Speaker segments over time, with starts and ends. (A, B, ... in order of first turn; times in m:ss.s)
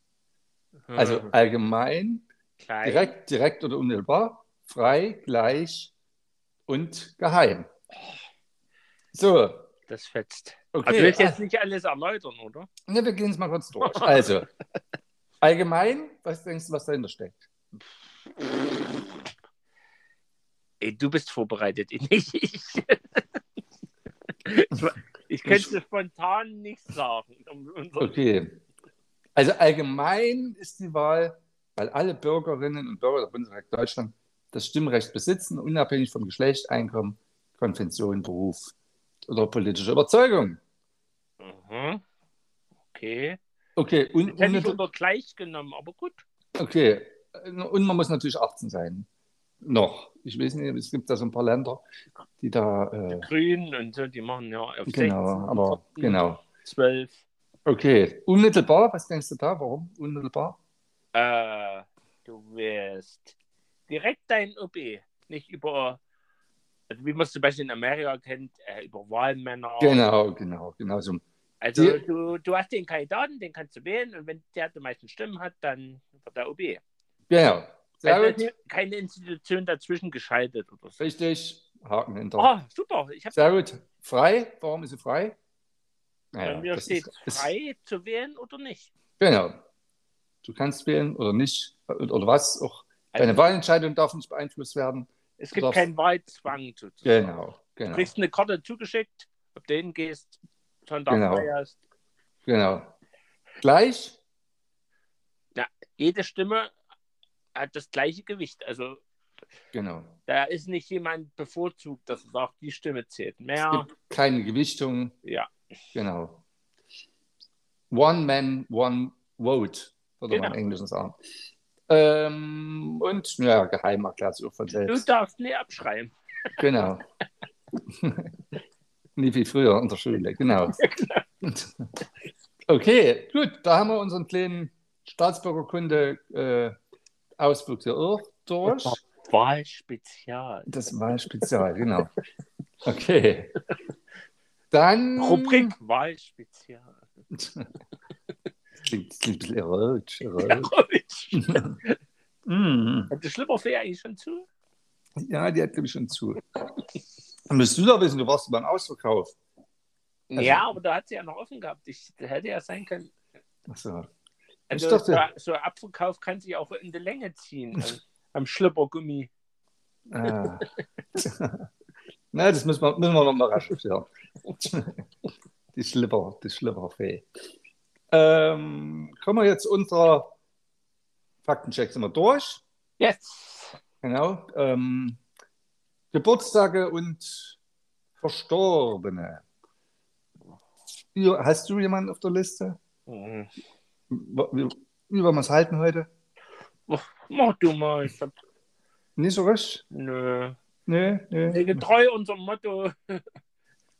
0:00.9-0:01.3 A
0:01.0-0:02.2 B
0:02.6-0:03.1 A
0:02.8-0:05.9 B
0:06.7-0:07.7 B
0:09.1-0:09.7 B
0:09.9-0:12.7 A
0:10.7-0:11.4 B
0:12.9-0:14.5 B
0:13.8-0:14.3 A
0:15.4-0:17.5 B
0:20.8-0:23.2 A
0:24.4-0:28.1 A
0:25.4-0:25.7 B
0:28.0-0:28.6 B
0:29.4-0:38.7 B
0:39.3-0:40.6 B
0:41.4-0:42.0 A
0:42.9-0:43.4 A
0:43.8-0:44.8 B
0:44.3-0:46.2 A
0:46.6-0:49.1 B
0:49.6-0:51.8 B
0:52.4-0:53.3 B
0:53.1-0:57.2 A
0:54.9-0:56.4 B
0:57.6-1:00.6 B
1:01.1-1:03.3 A
1:03.9-1:06.0 A
1:06.9-1:10.0 A
1:09.8-1:11.2 B
1:11.6-1:16.8 A
1:11.8-1:12.0 B
1:17.3-1:18.5 B
1:18.0-1:21.0 A
1:21.0-1:22.5 B
1:22.4-1:23.6 A
1:23.3-1:25.4 B
1:26.3-1:27.5 B
1:26.4-1:28.9 A
1:29.2-1:29.6 B
1:30.4-1:35.9 B
1:33.1-1:33.5 A
1:35.4-1:37.3 A
1:37.0-1:38.1 B
1:37.9-1:41.8 A
1:41.1-1:41.5 B
1:42.4-1:42.9 B
1:43.6-1:44.2 B
1:45.5-1:46.7 A
1:47.5-1:49.0 A
1:49.7-1:50.2 B
1:50.3-1:53.9 A
1:53.6-1:55.1 B
1:55.2-1:55.5 A
1:55.9-1:56.4 B
1:57.9-2:01.2 B
2:00.3-2:00.6 A
2:01.9-2:05.1 B
2:04.8-2:06.9 A
2:06.6-2:07.0 B
2:08.0-2:08.3 B
2:09.2-2:10.8 B
2:10.5-2:11.2 A
2:11.4-2:11.7 B
2:12.7-2:16.7 B
2:17.4-2:19.0 B
2:18.6-2:20.7 A
2:20.7-2:22.1 B
2:21.2-2:21.6 A
2:22.8-2:23.5 B
2:24.7-2:25.7 B
2:25.2-2:27.0 A
2:27.3-2:27.7 B
2:28.8-2:30.7 B
2:30.4-2:32.0 A
2:31.4-2:31.8 B
2:32.5-2:33.1 B
2:33.1-2:34.5 A
2:35.2-2:36.4 B
2:37.5-2:39.4 B
2:40.3-2:43.1 A
2:40.4-2:40.7 B
2:43.7-2:44.1 B
2:44.7-2:49.3 A
2:44.7-2:45.2 B
2:50.1-2:50.6 B
2:50.3-2:50.6 A
2:51.2-2:51.6 B
2:52.3-2:55.0 B
2:55.7-2:57.2 B
2:58.1-3:00.3 B
3:01.4-3:02.6 B
3:03.0-3:03.8 A
3:04.0-3:05.2 B
3:06.1-3:07.6 B
3:08.2-3:09.4 B
3:11.1-3:12.8 B
3:13.1-3:13.5 A
3:14.1-3:16.1 B
3:16.9-3:18.3 A
3:19.2-3:19.8 B
3:19.9-3:20.6 A
3:20.9-3:21.8 B
3:21.5-3:23.2 A